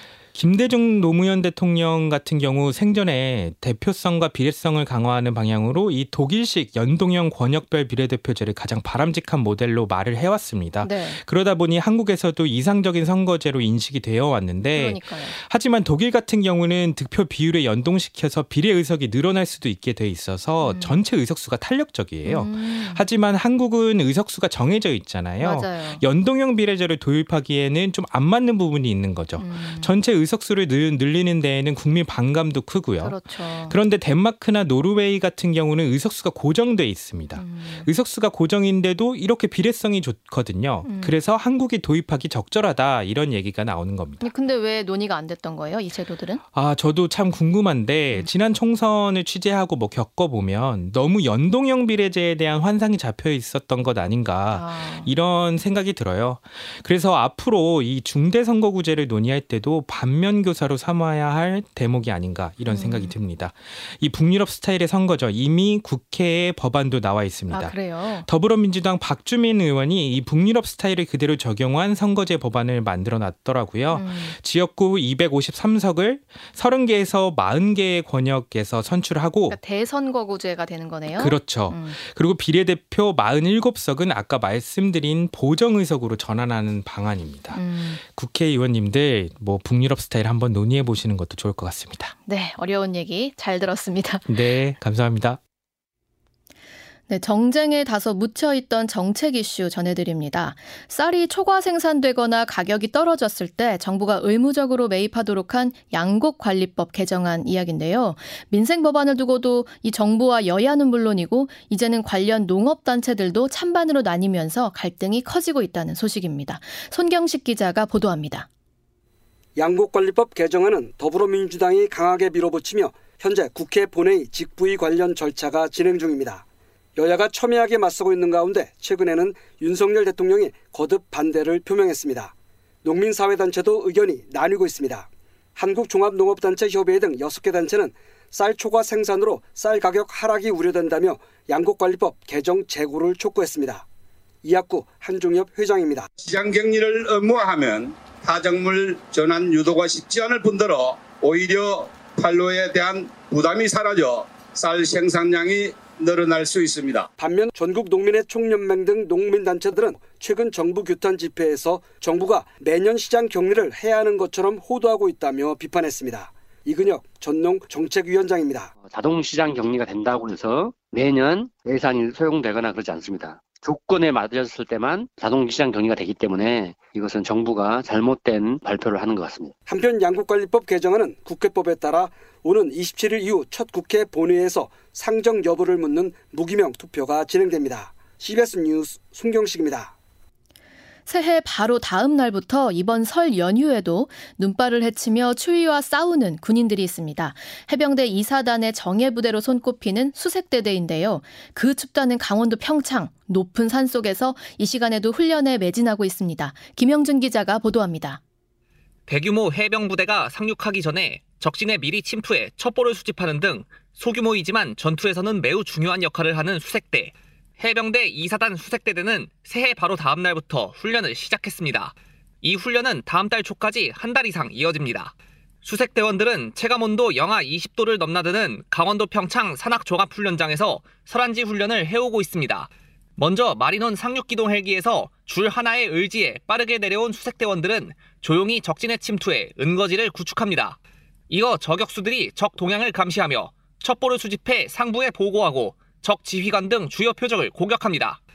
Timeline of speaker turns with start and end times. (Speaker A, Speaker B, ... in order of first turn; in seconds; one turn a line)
Speaker A: 0.3-44.2
Speaker B: 10.8-11.2
Speaker B: 14.7-15.3
Speaker B: 20.6-21.0
Speaker B: 22.2-23.0
Speaker B: 25.4-26.0
Speaker B: 29.4-29.9
Speaker B: 33.0-33.8
Speaker B: 37.4-37.9
Speaker B: 40.8-41.2
Speaker B: 44.2-46.4
Speaker A: 46.5-79.6
Speaker B: 54.5-55.1
Speaker B: 62.7-63.1
Speaker B: 67.5-68.3
Speaker B: 73.9-74.3
Speaker B: 79.5-82.0
Speaker A: 81.2-92.1
Speaker B: 87.5-88.0
Speaker B: 92.2-94.3
Speaker A: 94.3-95.4
Speaker B: 97.1-118.5
Speaker C: 119.5-126.4
Speaker C: 127.0-132.3
Speaker C: 132.8-143.8
Speaker C: 144.4-146.1
Speaker D: 146.2-157.1
Speaker C: 157.2-168.7
Speaker E: 168.8-179.5
Speaker C: 179.7-189.9
Speaker B: 191.1-208.2
Speaker F: 209.1-240.8
Speaker F: 241.3-248.2